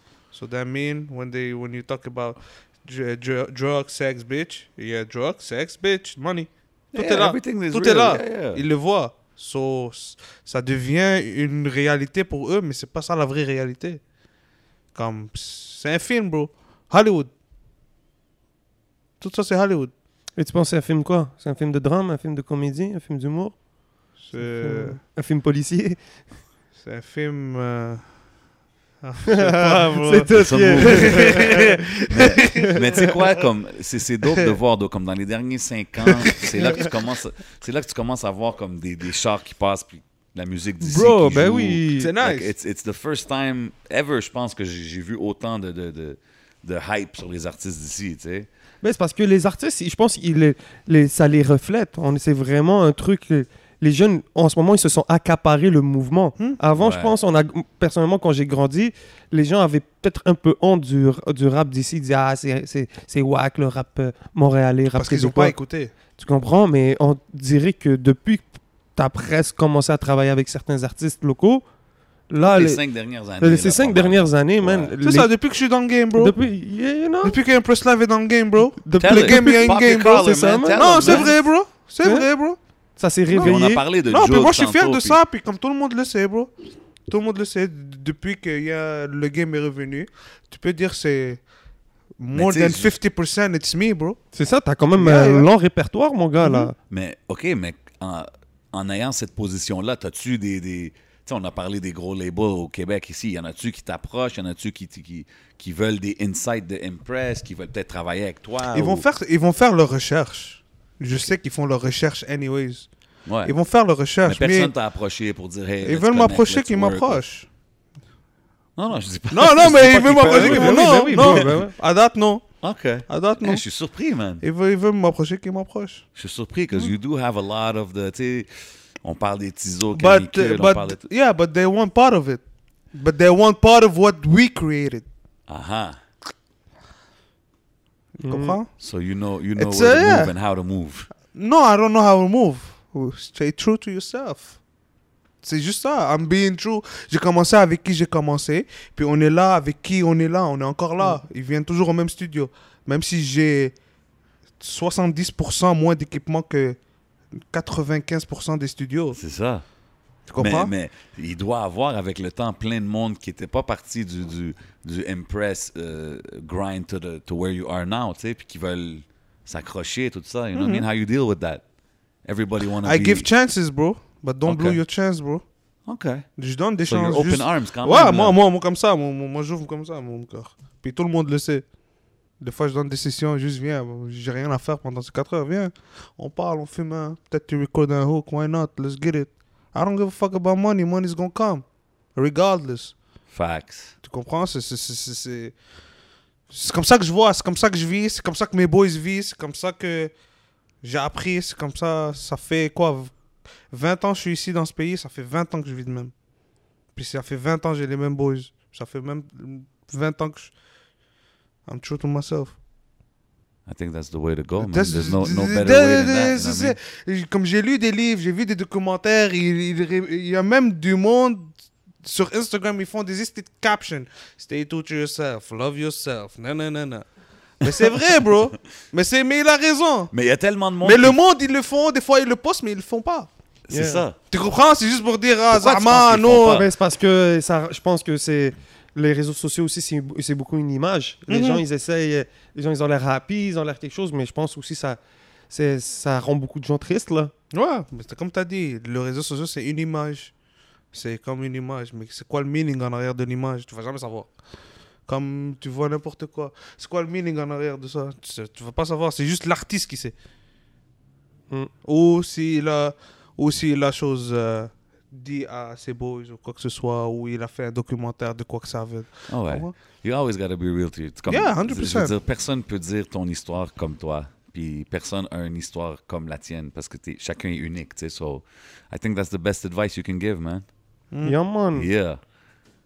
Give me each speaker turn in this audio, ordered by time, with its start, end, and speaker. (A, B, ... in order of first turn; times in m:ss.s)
0:00.3-0:14.0 A
0:06.9-0:08.6 B
0:14.9-0:17.3 A
0:19.2-0:19.9 A
0:20.4-0:23.6 C
0:24.2-0:25.0 A
0:24.3-0:26.0 C
0:26.8-0:28.1 A
0:29.0-0:33.3 A
0:29.3-0:31.8 C
0:30.3-0:31.5 B
0:32.1-0:48.5 B
0:32.6-0:33.1 C
0:34.2-0:34.6 A
0:36.0-0:36.9 A
0:40.8-0:42.1 C
0:42.0-0:42.5 A
0:48.8-1:05.5 C
0:56.8-0:57.1 B
1:04.9-1:05.9 A
1:06.2-1:11.6 C
1:12.3-1:12.8 C
1:12.4-1:14.9 B
1:13.4-1:15.3 C
1:15.0-1:16.3 A
1:16.1-1:17.4 C
1:17.2-1:22.6 A
1:18.8-1:21.3 C
1:19.0-1:21.4 B
1:23.0-1:23.8 C
1:23.3-1:26.5 A
1:23.4-1:25.2 B
1:27.1-1:31.4 A
1:32.2-1:34.2 A
1:32.3-1:32.9 B
1:34.3-1:36.7 C
1:34.9-1:35.5 A
1:36.4-1:36.7 A
1:36.9-1:49.0 B
1:48.7-1:52.9 A
1:53.2-1:53.5 B
1:53.4-1:54.7 A
1:54.2-1:57.2 B
1:55.8-1:57.5 A
1:58.8-2:01.6 B
1:59.3-2:02.4 A
2:00.1-2:01.7 C
2:02.6-2:04.4 B
2:03.1-2:03.6 A
2:04.4-2:06.0 A
2:06.2-2:11.0 B
2:09.9-2:12.4 A
2:12.9-2:15.0 A
2:15.5-2:16.0 B
2:18.2-2:18.7 A
2:18.2-2:18.6 C
2:18.8-2:21.1 B
2:19.6-2:20.3 A
2:21.3-2:24.6 A
2:25.4-2:33.7 A
2:34.6-2:36.8 A
2:37.5-2:39.2 A
2:39.1-2:39.6 B
2:40.3-2:40.7 A
2:40.4-2:51.6 B
2:50.5-2:50.8 A
2:52.2-2:53.3 B
2:52.8-2:55.4 A
2:54.4-2:54.8 B
2:55.9-2:56.3 B
2:56.4-3:01.6 A
2:56.8-2:58.4 B
3:02.4-3:11.6 A
3:12.2-3:13.0 A
3:13.3-3:13.9 B
3:14.0-3:15.5 A
3:16.5-3:20.1 A
3:20.8-3:23.1 A
3:23.7-3:26.1 A
3:26.9-3:30.5 A
3:31.7-3:32.6 A
3:33.6-3:36.8 B
3:34.6-3:47.0 A
3:47.6-3:50.1 A
3:50.1-3:51.2 B
3:50.8-3:53.3 A
3:53.7-3:54.2 B
3:53.7-3:54.0 C
3:54.3-3:56.6 A
3:55.5-3:56.7 B
3:56.5-4:05.0 C
4:01.3-4:01.6 A
4:05.5-4:07.3 C
4:07.5-4:10.3 A
4:10.9-4:14.3 A
4:15.1-4:20.1 A
4:21.8-4:29.7 A
4:29.3-4:40.6 B
4:31.3-4:32.2 A
4:41.1-4:41.4 A
4:41.2-4:41.9 C
4:41.7-4:42.2 B